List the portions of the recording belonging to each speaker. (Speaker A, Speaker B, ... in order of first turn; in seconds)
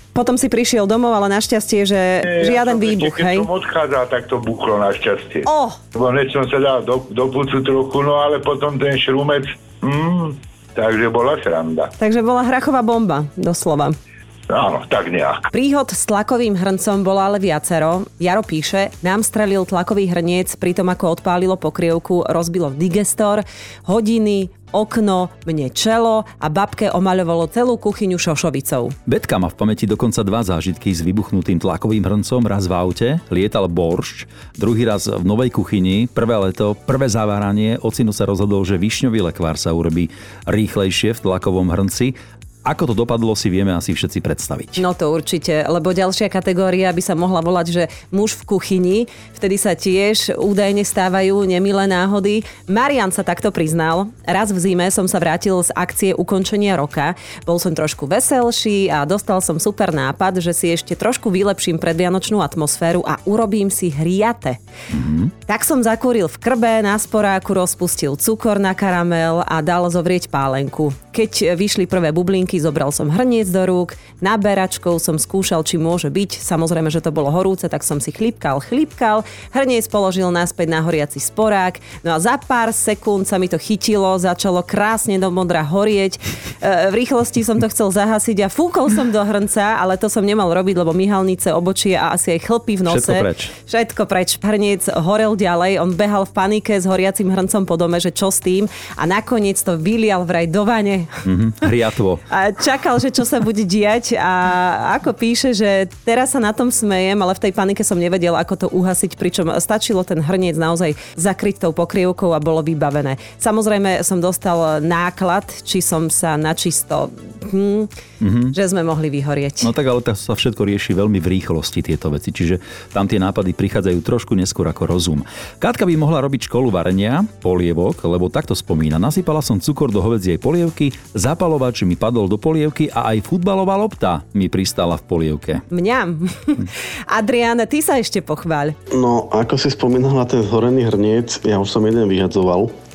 Speaker A: 0.1-3.5, 5.5-5.8, 12.0-14.0, 15.5-28.9, 44.8-64.6, 65.5-101.1, 102.3-117.9, 118.5-119.7, 135.7-138.8
Speaker B: 2.2-11.9, 14.5-15.5
Speaker C: 29.1-44.8, 64.9-65.3, 92.9-93.5, 101.2-102.2, 118.2-118.5, 119.6-135.7
Speaker D: 138.9-142.7